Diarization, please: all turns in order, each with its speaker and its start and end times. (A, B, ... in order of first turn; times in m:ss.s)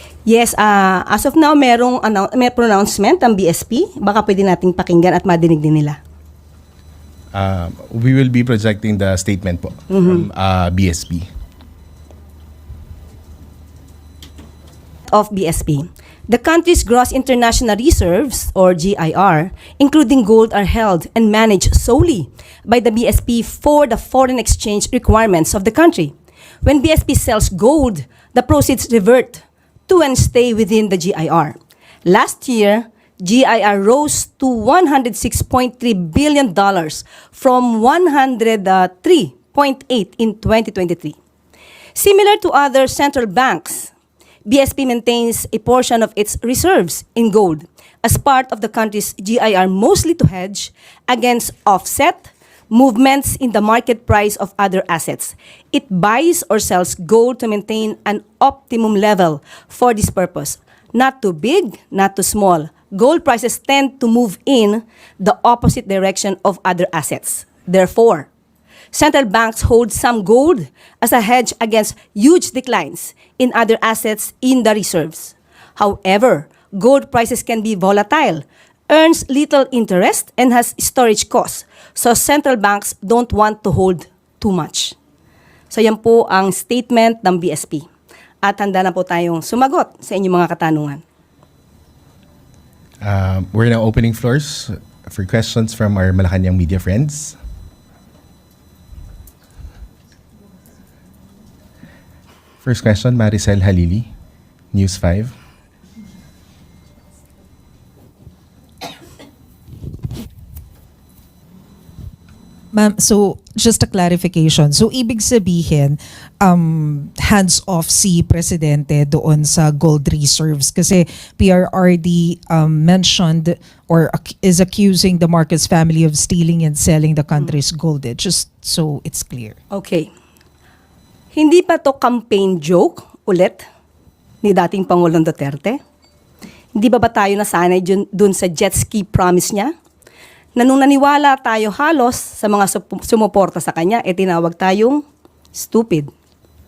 0:00.3-0:06.0 A
0:07.3-0:11.3 B
0:09.9-0:10.2 A
0:15.1-0:41.2 A
0:42.0-0:43.9 A
0:44.5-1:08.3 A
1:08.9-1:25.0 A
1:25.7-1:27.8 A
1:28.4-1:31.0 A
1:33.0-1:37.4 B
1:42.6-1:44.1 B
1:44.7-1:45.4 B
1:52.7-2:09.6 C
2:09.7-2:10.1 A
2:11.3-2:13.6 A
2:14.4-2:15.8 A
2:16.8-2:19.7 A
2:20.6-2:25.0 A
2:25.6-2:26.1 A